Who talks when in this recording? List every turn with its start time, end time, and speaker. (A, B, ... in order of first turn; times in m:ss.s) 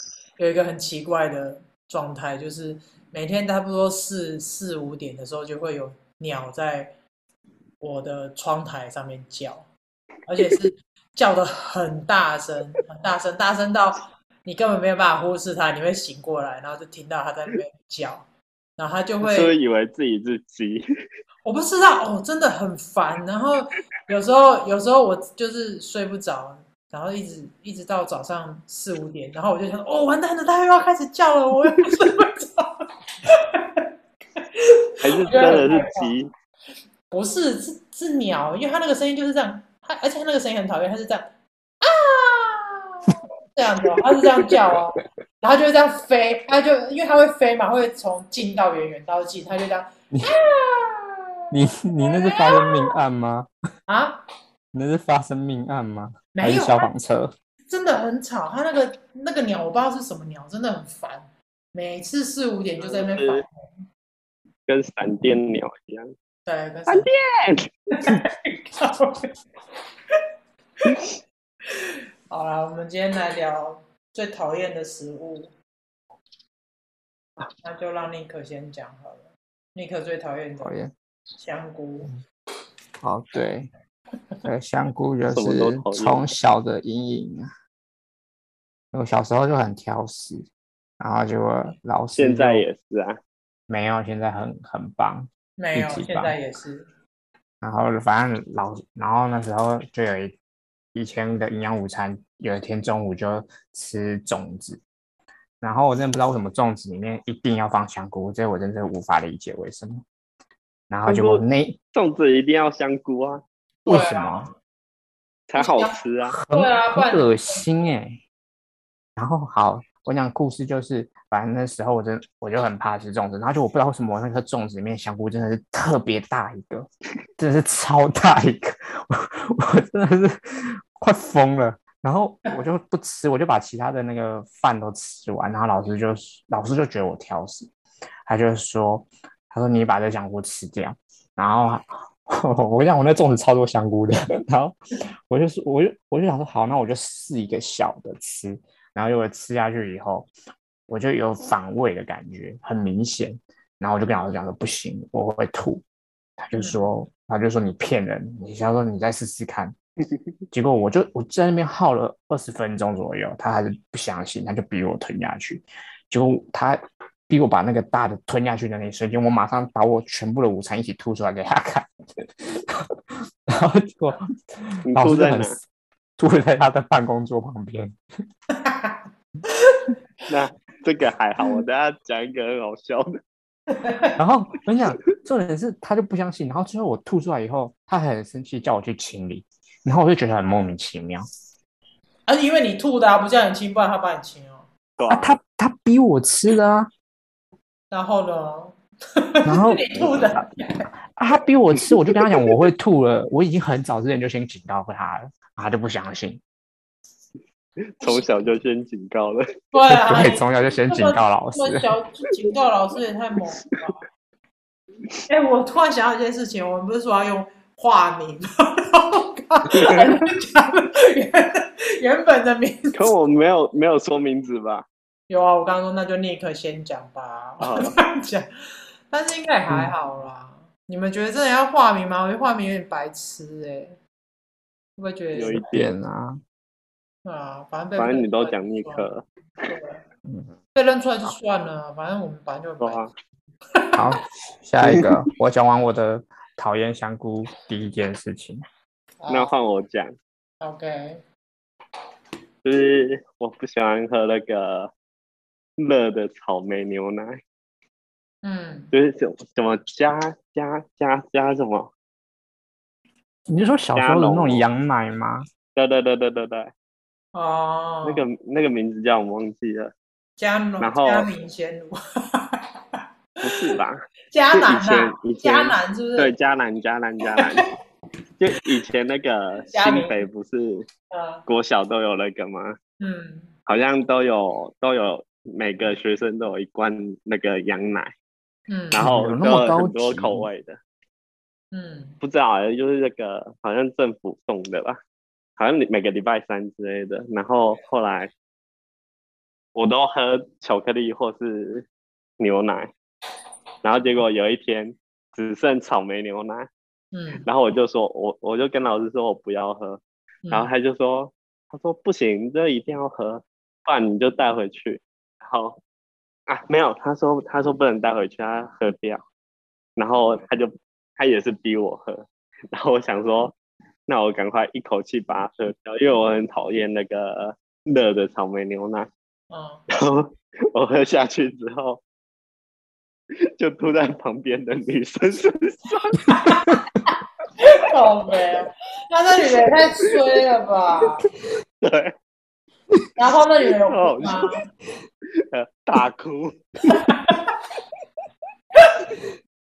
0:00.4-0:06.9 A
0:07.8-0:09.7 A
0:10.3-0:18.2 A
0:18.8-0:19.5 A
0:19.2-0:20.8 B
0:21.4-0:33.8 A
0:34.4-0:36.2 A
0:35.0-0:36.3 B
0:37.1-0:41.3 A
0:41.8-0:51.3 A
0:51.5-0:53.5 C
0:51.9-0:52.9 A
0:53.9-0:54.2 A
0:54.7-0:57.3 C
0:56.3-0:56.9 A
0:57.7-1:03.8 A
1:02.8-1:03.4 B
1:04.7-1:06.1 B
1:06.4-1:07.1 A
1:06.9-1:08.2 B
1:07.9-1:09.3 A
1:11.7-1:15.5 A
1:17.6-1:20.7 A
1:20.6-1:20.9 C
1:21.4-1:22.1 A
1:23.0-1:23.7 C
1:24.4-1:27.5 C
1:25.3-1:26.3 B
1:28.9-1:30.5 C
1:31.0-1:32.6 C
1:32.2-1:33.2 B
1:33.7-1:36.3 C
1:35.6-1:36.9 A
1:37.6-1:40.4 C
1:40.9-1:44.8 C
1:45.6-1:50.0 C
1:50.9-1:51.8 C
1:51.1-1:51.4 B
1:51.9-1:53.4 B
1:53.8-1:54.5 A
1:53.8-1:54.5 C
1:55.5-1:56.4 B
1:55.6-1:56.0 A
1:56.3-1:58.2 C
1:56.5-1:57.7 A
1:59.2-2:06.9 C
2:07.4-2:17.7 C
2:18.2-2:24.8 C
2:25.3-2:30.3 C
2:30.9-2:35.8 C
2:36.4-2:39.7 C
2:36.5-2:36.8 A
2:40.5-2:51.9 C
2:52.4-2:55.6 C
2:54.9-2:55.6 B
2:56.2-2:58.0 C
2:58.5-2:59.0 A
2:59.5-2:59.8 A
3:00.3-3:03.2 B
3:03.7-3:04.2 A
3:04.2-3:11.2 C
3:12.3-3:14.7 A
3:15.0-3:15.4 B
3:15.1-3:16.9 C
3:17.9-3:20.9 A
3:19.4-3:20.4 C
3:21.0-3:26.4 C
3:28.0-3:29.4 B
3:28.0-3:28.4 A
3:29.7-3:34.0 A
3:29.9-3:31.9 C
3:35.3-3:43.1 A
3:39.7-3:40.0 B
3:42.9-3:44.8 B
3:45.3-3:48.5 A
3:47.6-3:47.9 B
3:49.1-3:54.0 A
3:55.0-3:55.6 A
3:55.3-3:55.9 B
3:55.7-3:56.4 C
3:57.2-3:59.1 A
3:58.0-3:59.7 B
3:59.7-4:00.0 A
4:00.2-4:00.5 C
4:00.7-4:03.0 A
4:02.8-4:03.1 B
4:04.0-4:08.6 C
4:09.2-4:09.5 A
4:09.3-4:10.1 B
4:10.6-4:11.2 A
4:12.6-4:14.9 B
4:15.8-4:17.4 B
4:18.4-4:18.9 A
4:18.9-4:21.9 B
4:23.5-4:25.5 C
4:23.9-4:24.6 B
4:25.7-4:26.7 B
4:27.3-4:28.2 A
4:28.0-4:29.9 B
4:30.4-4:32.6 A
4:30.8-4:31.3 B
4:33.4-4:33.7 A
4:33.4-4:34.0 B
4:34.3-4:36.3 A
4:34.6-4:37.7 B
4:38.4-4:40.8 B
4:39.7-4:40.2 A
4:41.1-4:41.4 A
4:41.5-4:42.8 B
4:43.0-4:43.5 A
4:43.7-4:48.1 B
4:48.7-4:49.1 A
4:48.9-4:50.8 B
4:49.0-4:50.5 C
4:51.7-4:52.2 A
4:52.2-4:55.0 B
4:55.6-4:58.3 B
4:59.7-5:01.8 B
5:02.4-5:02.9 B
5:03.8-5:06.7 B
5:07.1-5:07.5 A
5:07.4-5:15.8 B
5:10.4-5:10.7 A
5:16.5-5:19.2 B
5:20.0-5:23.5 B
5:24.1-5:29.1 B
5:29.5-5:29.8 A
5:29.9-5:32.0 B
5:33.6-5:36.6 B
5:36.2-5:41.3 A
5:41.8-5:42.1 B
5:43.2-5:44.6 A
5:43.8-5:44.6 B
5:45.3-5:46.6 B
5:46.9-5:47.5 A